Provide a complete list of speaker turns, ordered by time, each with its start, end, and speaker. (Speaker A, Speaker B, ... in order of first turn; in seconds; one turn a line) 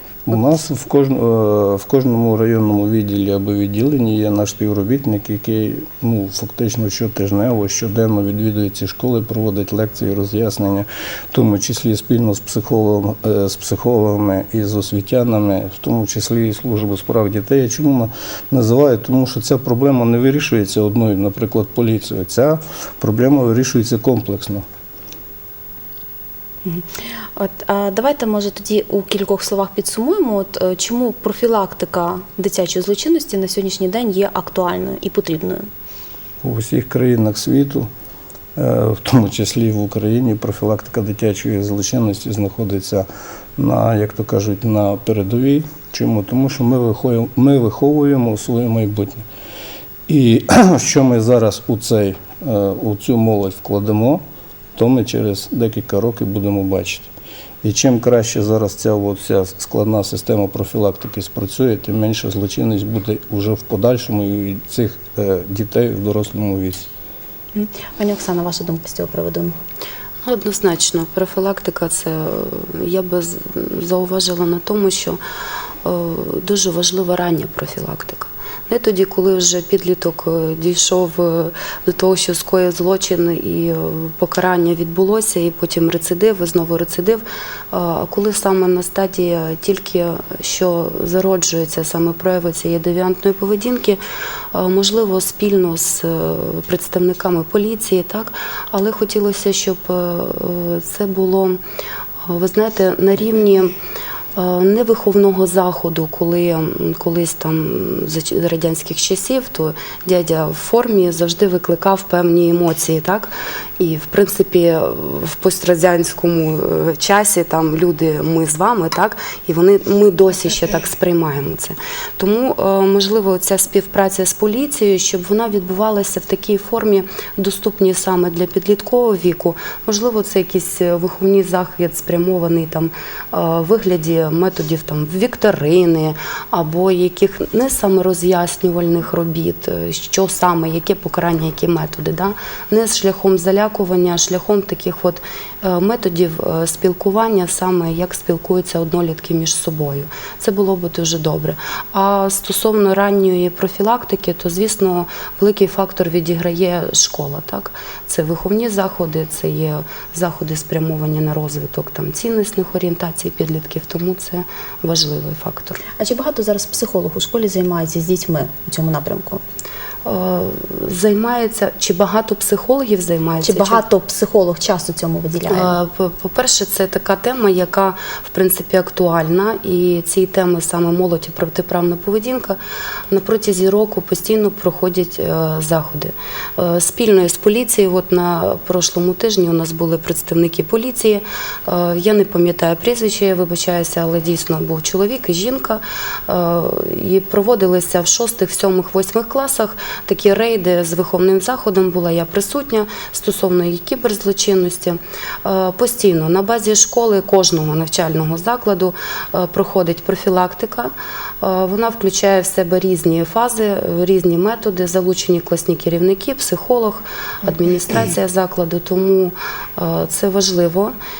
Speaker A: 0.3-24.6
Speaker B: 26.6-35.7
Speaker A: 36.4-37.9
Speaker A: 38.5-49.2
Speaker A: 50.1-54.2
Speaker A: 54.8-57.1
Speaker A: 57.6-66.9
Speaker B: 67.5-69.5
Speaker C: 70.2-75.2
Speaker C: 75.8-94.0
Speaker C: 94.5-101.6
Speaker C: 102.2-103.8
Speaker C: 104.3-165.8
Speaker B: 165.9-169.4
Speaker C: 170.0-173.8
Speaker B: 173.4-175.7
Speaker C: 175.5-182.6
Speaker C: 183.1-220.9